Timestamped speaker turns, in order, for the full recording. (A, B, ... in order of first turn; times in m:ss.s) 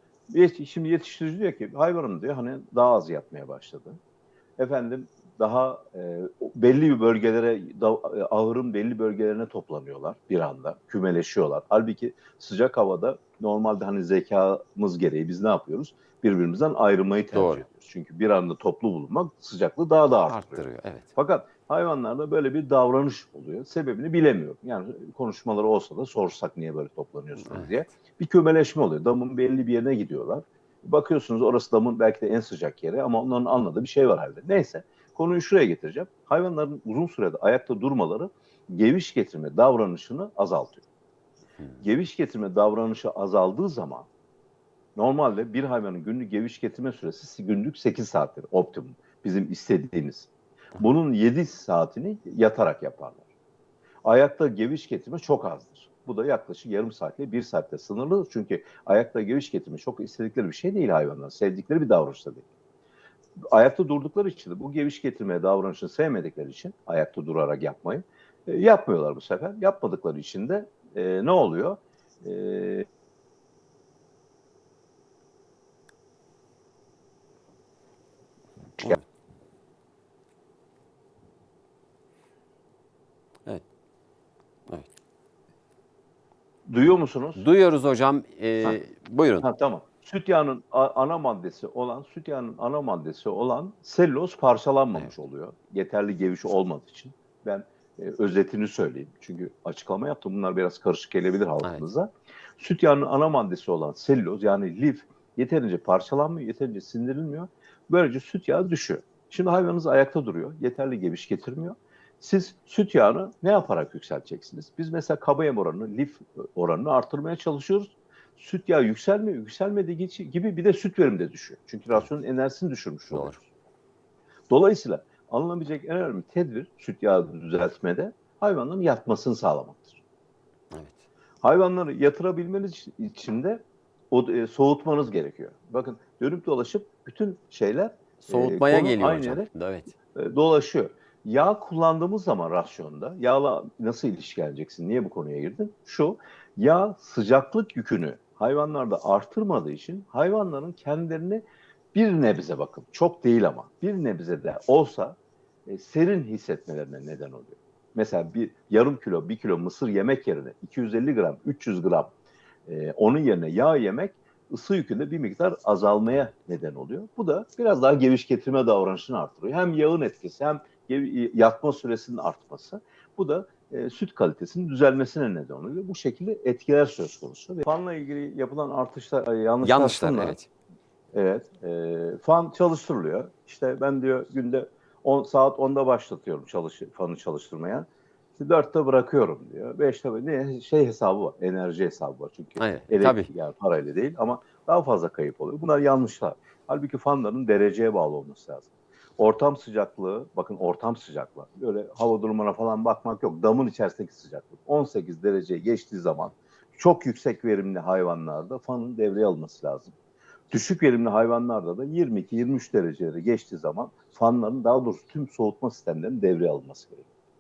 0:00.3-0:04.0 A
0:04.6-0:40.8 A
0:17.3-0:17.6 B
0:20.3-0:21.1 B
0:27.4-0:27.9 B
0:41.8-0:44.1 A
0:45.0-0:53.2 A
0:54.0-1:02.4 A
1:03.4-1:12.9 A
1:26.7-1:27.4 A
1:27.4-1:29.5 B
1:29.4-2:03.4 A
2:03.1-2:03.4 B
2:04.5-2:10.0 A
2:11.4-2:19.5 A
2:18.3-2:19.9 B
2:20.2-2:42.1 A
2:42.7-3:00.4 A
2:59.6-3:00.5 B
3:01.1-3:30.0 A
3:12.6-3:13.3 B
3:30.5-3:37.1 A